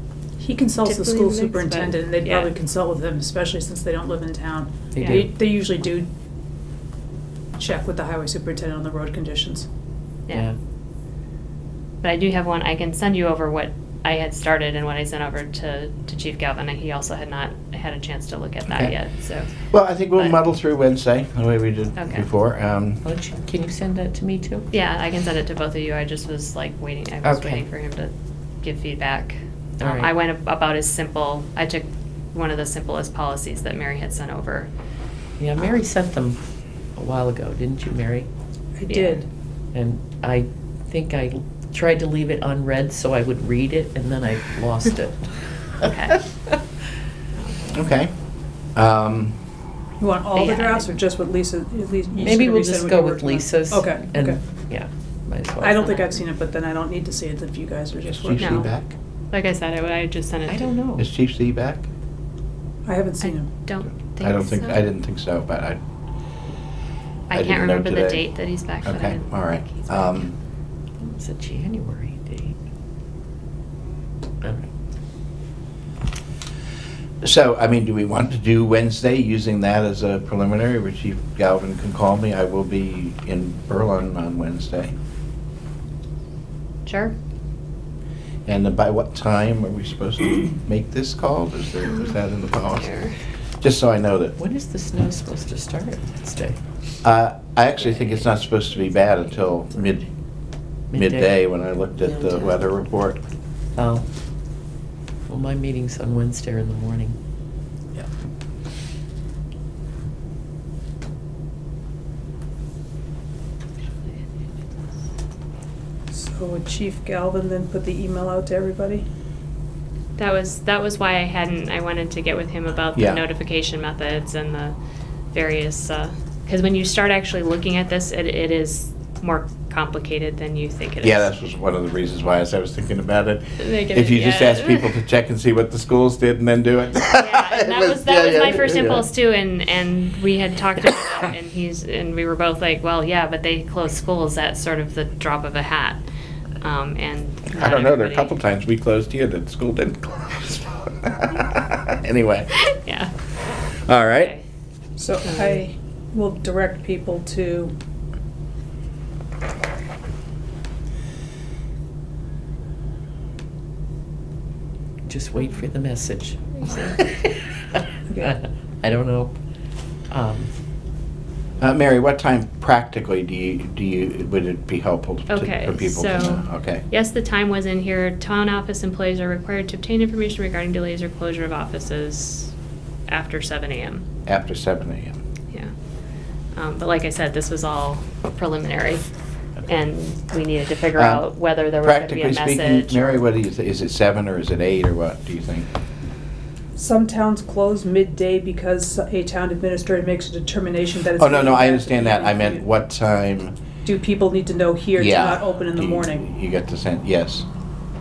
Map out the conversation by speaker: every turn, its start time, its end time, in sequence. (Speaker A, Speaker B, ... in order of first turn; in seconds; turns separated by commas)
Speaker A: 0.4-6.1, Speaker B: 0.8-2.5, Speaker C: 5.0-5.3, Speaker B: 5.0-5.2, Speaker A: 7.6-9.7, Speaker B: 12.0-19.5, Speaker D: 19.7-23.0, Speaker B: 22.0-22.2, Speaker C: 23.0-24.7, Speaker B: 24.7-34.7, Speaker C: 27.2-27.6, Speaker C: 29.8-30.1, Speaker C: 35.4-36.4, Speaker C: 37.0-38.3, Speaker A: 38.8-39.3, Speaker B: 38.9-39.2, Speaker C: 39.7-45.3, Speaker B: 45.8-46.2, Speaker B: 47.4-47.6, Speaker D: 47.7-48.1, Speaker D: 48.8-49.4, Speaker A: 50.0-54.4, Speaker B: 50.3-51.0, Speaker C: 52.2-56.0, Speaker A: 55.6-58.7, Speaker D: 58.2-59.0, Speaker B: 58.4-58.7, Speaker B: 59.3-60.7, Speaker C: 60.5-61.1, Speaker D: 61.0-61.9, Speaker A: 62.9-63.5, Speaker B: 63.2-64.9, Speaker D: 64.2-65.8, Speaker B: 67.3-70.2, Speaker D: 67.3-68.2, Speaker D: 68.8-70.3, Speaker C: 71.0-72.6, Speaker C: 74.4-74.7, Speaker D: 77.2-84.9, Speaker B: 86.9-87.1, Speaker D: 88.5-92.9, Speaker B: 92.7-93.1, Speaker D: 93.6-94.4, Speaker C: 94.4-96.6, Speaker D: 97.0-100.1, Speaker C: 97.9-98.2, Speaker C: 100.9-101.3, Speaker D: 100.9-103.2, Speaker C: 102.0-102.6, Speaker C: 103.8-104.0, Speaker C: 105.3-107.2, Speaker A: 116.1-119.0, Speaker B: 120.2-124.8, Speaker D: 123.0-123.2, Speaker B: 125.3-131.3, Speaker D: 131.0-139.1, Speaker B: 133.6-134.9, Speaker B: 137.1-146.0, Speaker B: 146.6-148.3, Speaker D: 147.5-152.5, Speaker B: 152.7-153.1, Speaker D: 153.9-154.3, Speaker B: 154.2-154.4, Speaker A: 155.0-157.7, Speaker B: 155.2-155.6, Speaker C: 165.1-169.3, Speaker B: 166.6-167.0, Speaker A: 168.1-168.4, Speaker C: 170.1-170.5, Speaker D: 171.6-176.8, Speaker B: 175.3-182.5, Speaker B: 183.1-184.0, Speaker D: 184.3-185.2, Speaker B: 186.6-189.0, Speaker B: 189.7-193.2, Speaker D: 191.0-191.2, Speaker D: 191.8-195.7, Speaker A: 196.8-202.6, Speaker D: 201.2-203.5, Speaker A: 203.8-206.2, Speaker D: 205.0-207.4